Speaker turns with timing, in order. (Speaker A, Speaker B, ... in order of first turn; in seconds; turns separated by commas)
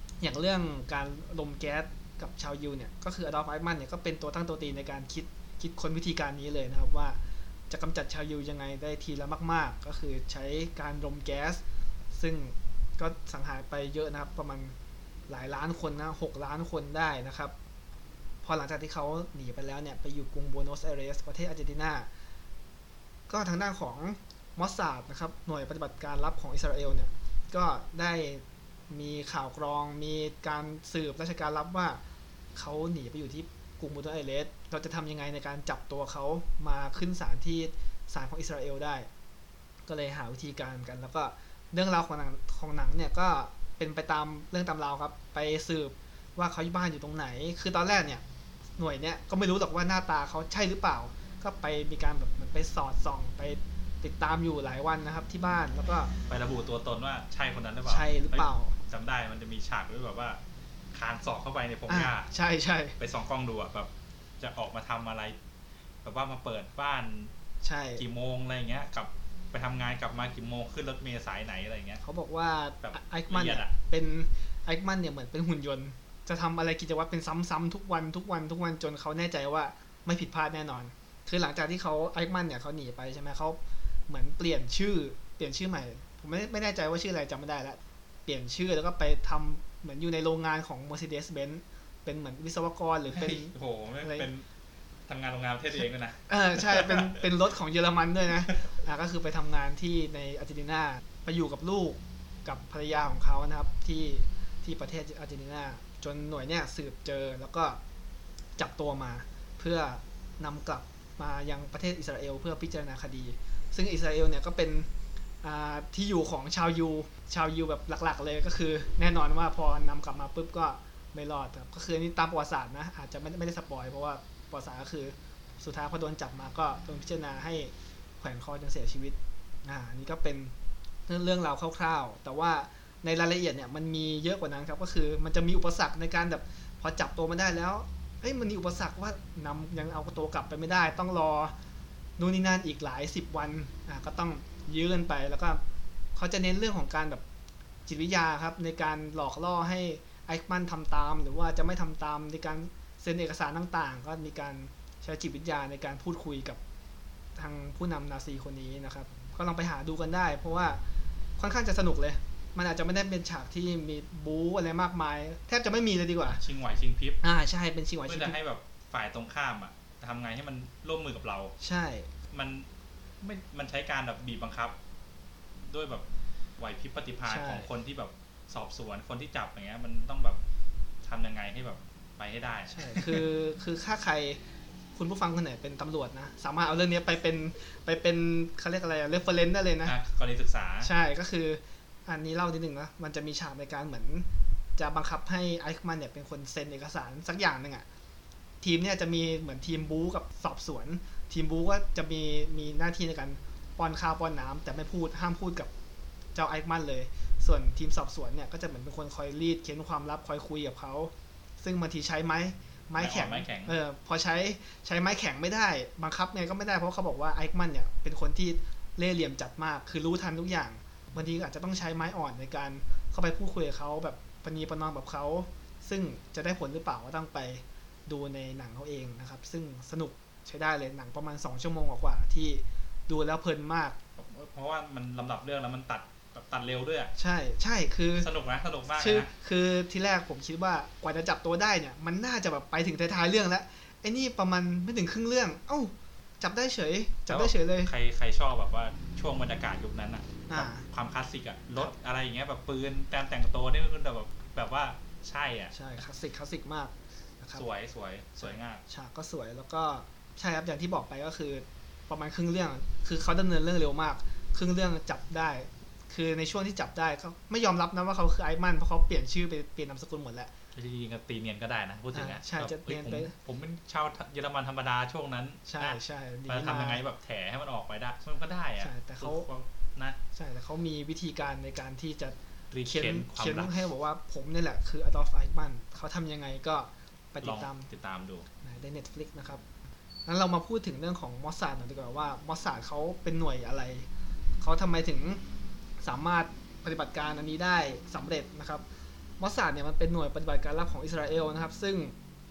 Speaker A: 0.2-11.6, Speaker A: 12.1-14.8, Speaker A: 15.3-17.5, Speaker A: 18.4-22.1, Speaker A: 23.3-32.0, Speaker A: 32.5-39.1, Speaker A: 39.9-48.2, Speaker A: 48.8-56.1, Speaker B: 56.3-60.4, Speaker A: 57.9-58.8, Speaker B: 60.9-62.3, Speaker A: 61.9-63.0, Speaker B: 63.0-65.4, Speaker B: 66.0-67.3, Speaker A: 67.6-68.0, Speaker B: 68.0-72.0, Speaker A: 72.0-94.3, Speaker B: 72.8-73.7, Speaker B: 93.1-94.5, Speaker B: 95.1-97.2, Speaker A: 96.3-107.8, Speaker A: 108.6-114.9, Speaker A: 115.4-130.5, Speaker A: 131.1-141.6, Speaker A: 142.2-145.6, Speaker A: 146.2-147.2, Speaker A: 147.9-156.6, Speaker A: 157.4-160.8, Speaker A: 161.4-166.4, Speaker B: 166.3-167.2, Speaker A: 167.2-168.4, Speaker B: 168.1-171.5, Speaker A: 171.6-172.1, Speaker B: 172.3-172.7, Speaker B: 173.2-174.8, Speaker B: 175.6-176.1, Speaker B: 176.6-180.4, Speaker A: 177.3-177.7, Speaker B: 181.0-183.3, Speaker A: 182.7-184.4, Speaker A: 184.9-190.0, Speaker B: 189.8-190.9, Speaker A: 190.8-197.9, Speaker A: 198.6-205.7, Speaker A: 206.3-234.0, Speaker B: 213.0-213.8, Speaker B: 234.2-237.1, Speaker A: 237.2-238.3, Speaker B: 238.2-239.3, Speaker A: 238.9-247.9, Speaker B: 247.3-255.7, Speaker A: 250.5-250.9, Speaker A: 255.7-257.6, Speaker B: 257.6-258.8, Speaker A: 258.4-270.5, Speaker B: 270.7-280.2, Speaker A: 272.1-273.3, Speaker A: 275.7-277.0, Speaker A: 278.8-279.5, Speaker A: 280.3-287.9, Speaker B: 282.7-283.7, Speaker B: 287.4-288.5, Speaker A: 288.6-289.6, Speaker A: 290.3-294.1, Speaker A: 294.6-295.4, Speaker A: 296.0-298.8, Speaker A: 299.4-302.1